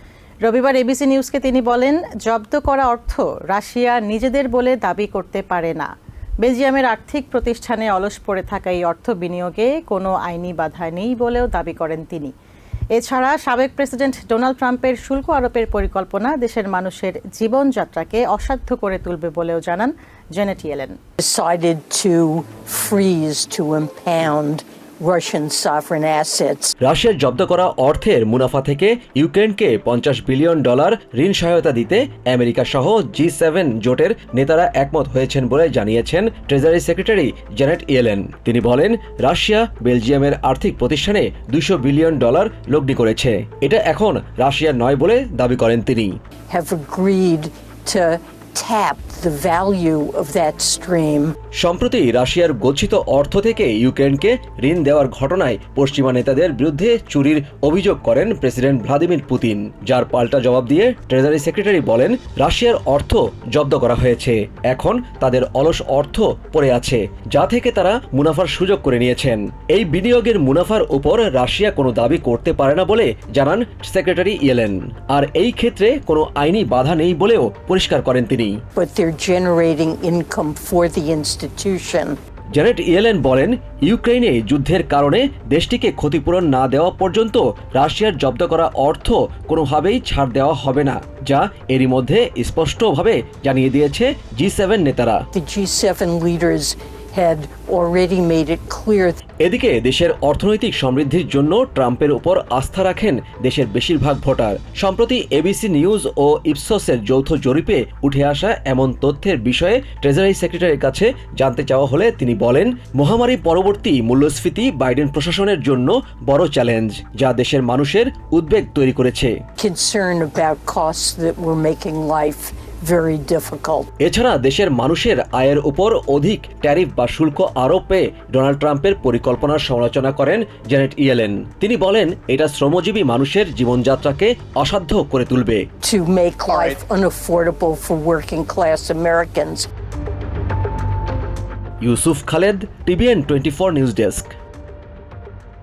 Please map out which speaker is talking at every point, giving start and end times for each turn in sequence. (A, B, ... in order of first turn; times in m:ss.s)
0:00.4-0:05.9 A
0:06.4-0:12.3 A
0:12.9-0:21.0 A
0:21.2-0:26.7 B
0:26.8-0:46.1 C
0:46.5-0:51.3 B
0:51.6-1:18.5 C
1:18.8-1:22.2 B
1:22.6-1:35.2 C
1:35.3-1:39.2 B
1:39.4-1:59.3 C
1:59.6-2:03.9 B
2:04.0-2:15.6 C
2:15.8-2:19.7 B
2:21.8-2:24.3 C